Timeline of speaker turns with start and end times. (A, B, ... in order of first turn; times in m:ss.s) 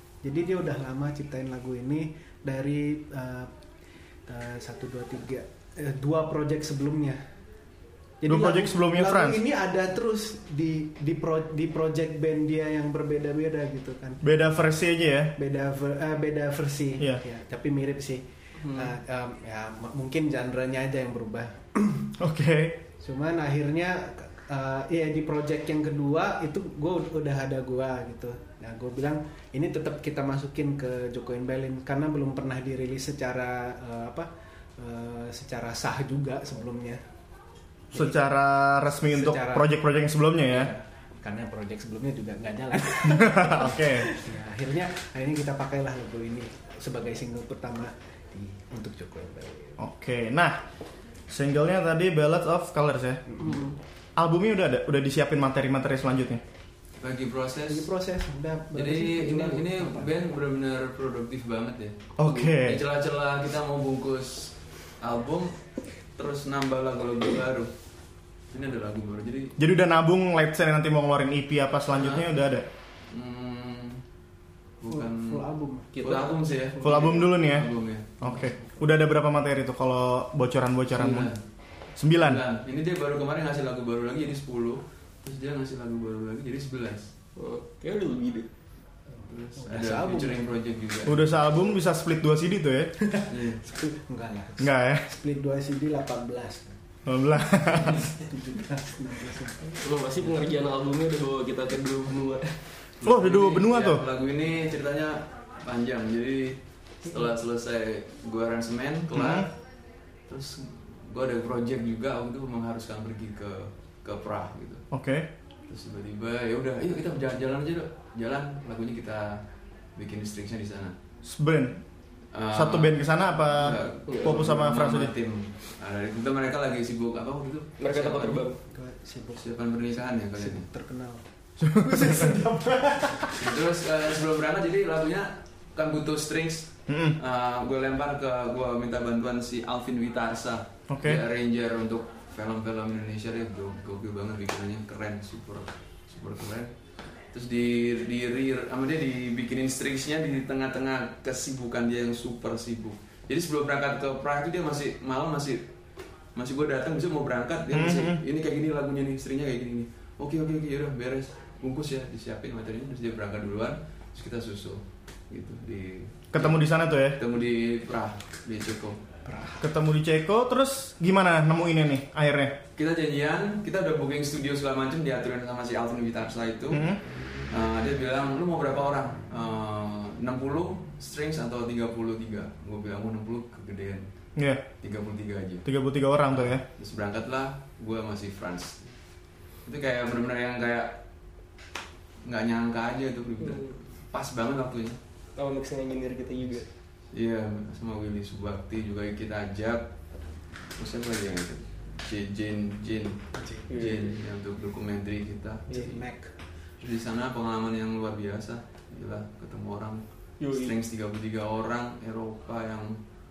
0:00.2-0:03.5 A
0:04.3-0:07.2 A
0:08.2-0:14.2 A
0:08.2-0:09.4 B
0:14.2-0:15.3 B
0:15.4-0:22.1 A
0:18.6-0:18.9 C
0:22.2-0:22.8 B
0:23.0-0:37.0 A
0:37.9-0:38.3 A
0:37.9-0:40.7 B
0:39.0-0:39.7 A
0:40.4-0:49.8 A
0:43.0-0:44.1 B
0:49.8-0:50.6 B
0:51.3-0:53.2 B
0:53.3-0:53.8 A
0:54.2-0:56.4 B
0:57.0-0:57.9 D
0:57.7-1:00.1 A
0:58.7-1:05.6 D
1:02.2-1:02.8 B
1:06.2-1:07.7 D
1:08.5-1:09.6 D
1:09.6-1:12.7 B
1:11.9-1:12.3 D
1:13.1-1:14.0 D
1:14.8-1:15.5 D
1:14.9-1:15.9 A
1:15.9-1:17.2 C
1:16.0-1:18.5 D
1:16.8-1:21.3 B
1:21.0-1:21.4 D
1:22.0-1:22.4 B
1:22.1-1:27.1 D
1:27.4-1:28.5 C
1:29.2-1:31.4 D
1:29.6-1:30.6 A
1:31.0-1:33.0 B
1:33.0-1:36.8 A
1:33.3-1:33.6 D
1:34.6-1:35.1 B
1:37.0-1:38.0 B
1:37.9-1:39.8 A
1:39.8-1:42.6 C
1:43.0-1:49.5 D
1:43.0-1:44.0 B
1:49.1-1:49.5 B
1:50.3-1:54.8 D
1:54.9-1:55.3 B
1:55.7-1:59.4 D
2:00.0-2:00.9 D
2:01.2-2:01.8 B
2:02.3-2:08.5 D
2:02.5-2:05.1 B
2:04.1-2:04.4 C
2:07.8-2:08.6 C
2:08.7-2:13.5 A
2:09.3-2:10.7 D
2:11.6-2:12.4 B
2:13.3-2:26.7 D
2:16.9-2:17.2 B
2:20.9-2:21.2 B
2:27.3-2:35.6 D
2:36.3-2:46.6 D
2:37.7-2:38.2 B
2:46.3-2:47.2 B
2:47.1-2:49.0 D
2:49.2-2:49.7 A
2:49.6-2:52.6 B
2:52.8-2:56.9 D
2:56.7-2:57.0 B
2:57.5-3:04.0 D
3:04.4-3:04.6 B
3:04.8-3:05.7 D
3:05.6-3:06.6 B
3:06.3-3:08.9 D
3:09.6-3:11.0 D
3:12.2-3:15.0 D
3:13.4-3:13.8 C
3:15.4-3:16.7 C
3:17.1-3:19.9 D
3:20.8-3:23.2 D
3:23.4-3:23.7 A
3:23.7-3:24.2 C
3:23.7-3:26.0 D
3:25.7-3:26.3 A
3:26.8-3:33.0 D
3:30.4-3:30.8 C